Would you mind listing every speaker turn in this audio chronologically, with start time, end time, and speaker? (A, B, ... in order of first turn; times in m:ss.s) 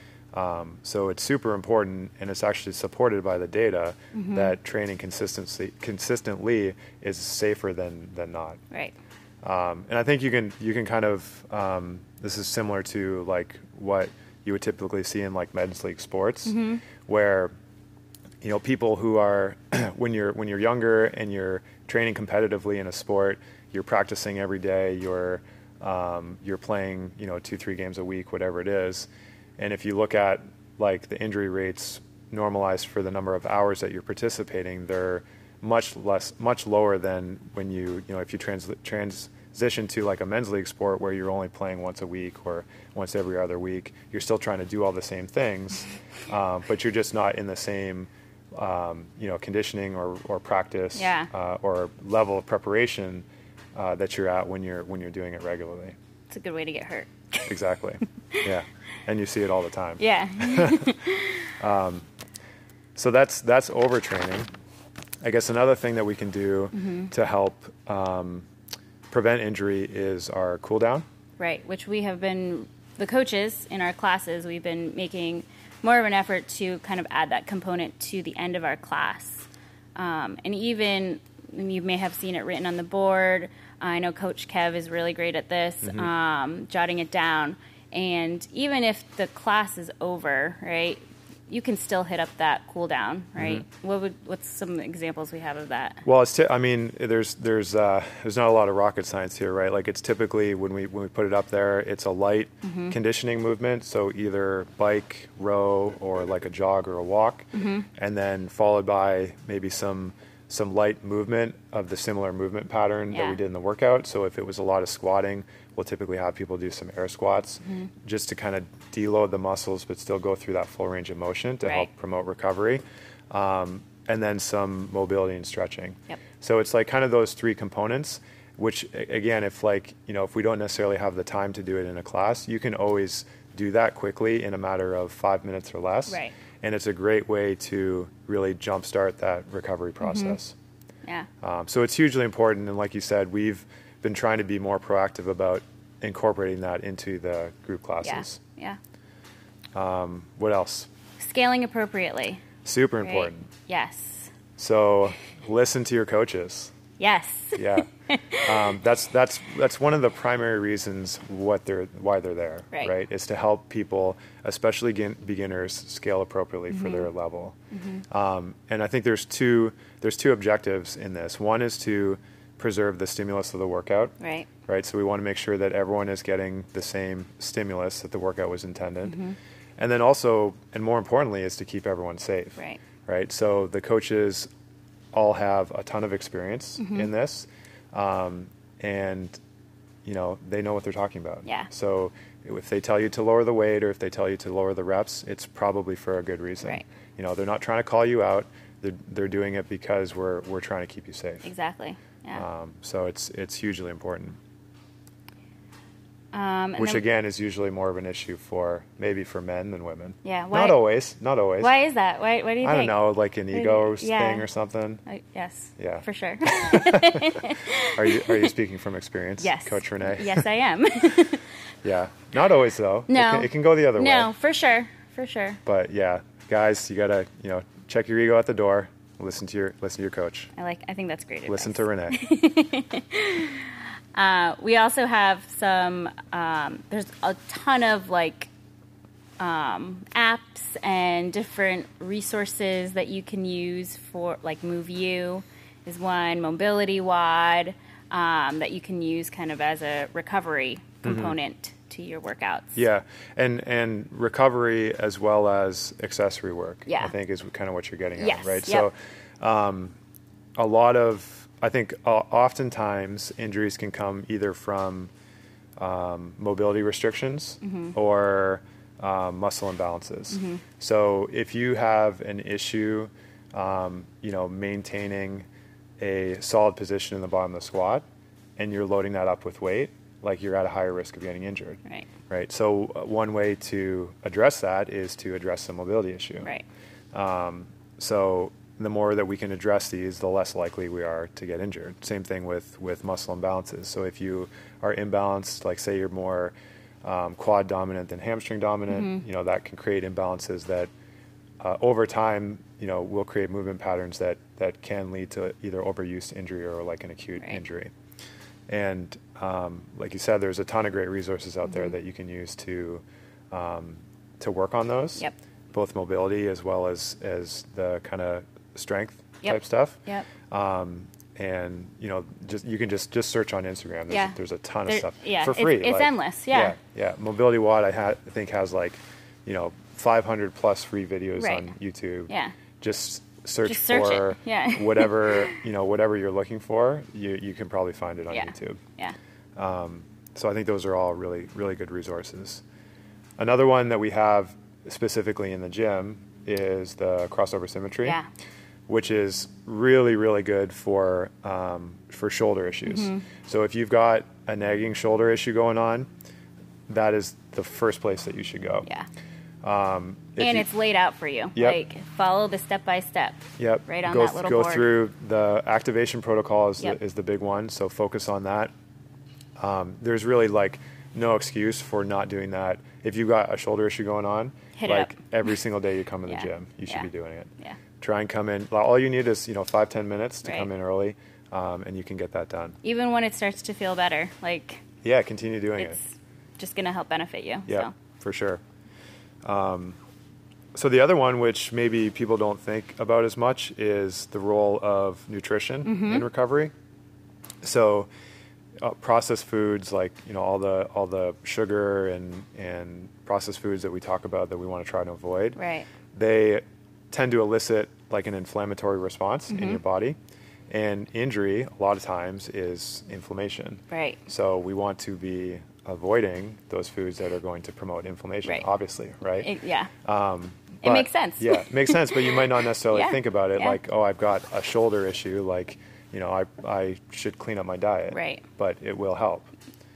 0:00.3-0:08.6 A
0:04.1-0:04.6 B
0:09.4-0:17.5 A
0:16.5-0:16.8 B
0:18.4-0:56.0 A
0:51.0-0:51.3 B
0:56.3-0:57.5 B
0:57.5-1:00.9 A
1:00.0-1:01.5 B
1:01.6-1:02.1 A
1:03.0-1:04.5 A
1:05.2-1:08.5 A
1:06.7-1:07.1 B
1:09.1-1:11.0 A
1:11.4-1:36.0 B
1:25.8-1:26.1 A
1:33.4-1:33.6 A
1:36.0-2:20.6 A
1:42.6-1:43.0 B
1:47.5-1:47.9 B
1:53.1-1:53.4 B
2:01.6-2:01.9 B
2:16.1-2:16.3 B
2:20.0-2:20.4 B
2:21.4-2:28.4 A
2:28.0-2:28.8 B
2:29.7-2:30.9 A
2:31.2-2:32.4 B
2:32.6-2:33.5 A
2:33.0-2:34.3 B
2:34.6-2:36.7 A
2:37.0-2:38.7 B
2:37.6-2:37.9 A
2:38.4-2:47.6 A
2:46.7-2:47.1 B
2:47.7-2:48.0 B
2:48.1-2:54.2 A
2:54.2-2:54.5 B
2:54.7-2:59.2 A
2:59.0-2:59.4 B
2:59.8-3:04.5 A
3:05.1-3:09.4 A
3:06.8-3:07.1 B
3:10.0-3:21.5 A
3:11.4-3:11.7 B
3:21.4-3:22.4 B
3:22.4-3:24.4 A
3:26.3-3:27.0 B
3:26.8-3:31.7 A
3:30.2-3:30.8 B
3:31.6-3:34.5 B
3:32.6-3:35.0 A
3:35.1-3:38.5 B
3:35.8-3:40.5 A
3:39.4-3:41.4 B
3:41.8-3:44.3 A
3:43.1-3:45.6 B
3:45.6-3:50.5 A
3:50.6-3:58.5 B
3:51.5-3:52.2 A
3:59.4-4:12.8 B
4:11.0-4:11.3 A
4:12.8-4:20.0 A
4:16.9-4:17.1 B
4:18.2-4:18.9 B
4:20.6-4:25.1 A
4:25.8-4:35.5 A
4:27.6-4:28.0 B
4:30.3-4:30.6 B
4:36.0-4:38.0 A
4:38.6-4:46.5 A
4:47.1-5:00.9 A
4:58.9-4:59.2 B
5:01.6-5:07.9 A
5:08.7-5:38.8 A
5:11.7-5:11.9 B
5:19.4-5:20.3 B
5:24.1-5:26.8 B
5:31.4-5:31.7 B
5:32.3-5:32.5 B
5:33.6-5:35.6 B
5:38.3-5:39.2 B
5:39.6-5:42.6 A
5:43.4-5:48.2 A
5:48.9-5:56.1 A
5:52.9-5:53.2 B
5:56.9-5:58.9 A
5:59.6-6:00.7 A
6:00.4-6:04.9 B
6:01.6-6:01.8 A
6:03.6-6:08.7 A
6:09.6-6:22.8 A
6:14.8-6:15.1 B
6:16.3-6:17.1 B
6:22.8-6:24.8 B
6:25.0-6:26.0 A
6:25.8-6:28.0 B
6:27.7-6:28.6 A
6:29.4-6:30.0 A
6:30.7-6:36.7 A
6:35.8-6:36.3 B
6:37.6-6:38.1 A
6:38.8-6:45.6 A
6:45.6-6:45.9 B
6:46.1-6:50.2 A
6:49.5-6:49.8 B
6:50.7-6:59.5 A
6:53.9-6:54.2 B
6:59.4-6:59.9 B
7:00.0-7:09.5 A
7:00.8-7:03.8 B
7:08.1-7:08.4 B